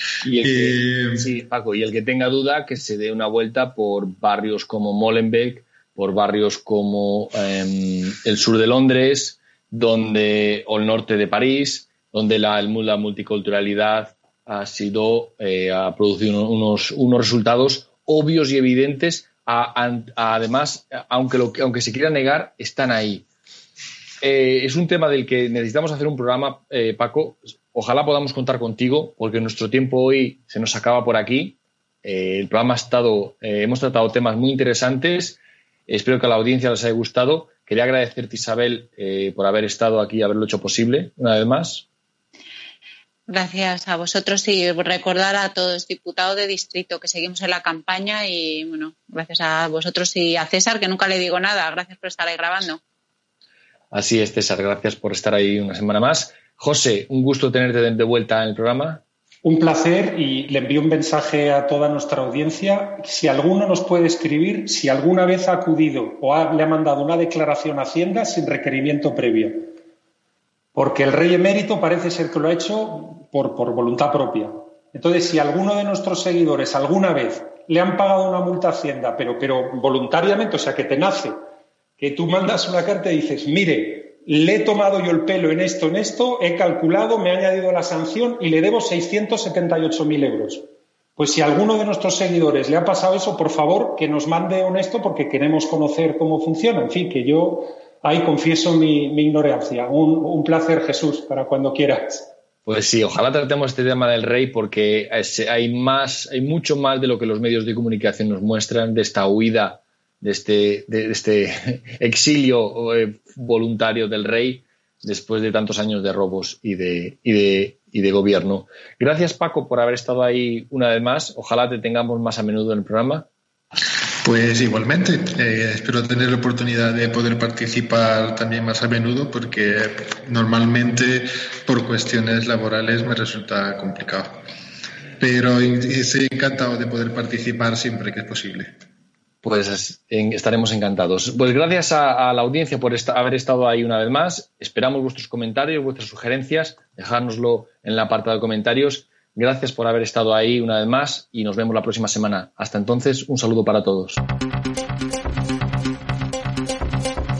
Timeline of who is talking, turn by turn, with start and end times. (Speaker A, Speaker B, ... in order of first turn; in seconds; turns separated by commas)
Speaker A: 0.2-23.3, Speaker B: 0.4-1.3, Speaker A: 24.2-41.9, Speaker C: 43.3-52.8, Speaker A: 53.9-59.0, Speaker D: 59.4-69.7, Speaker D: 70.8-81.4, Speaker D: 82.0-102.3, Speaker A: 102.7-123.3, Speaker B: 124.2-134.4, Speaker B: 135.2-138.7, Speaker A: 139.4-154.2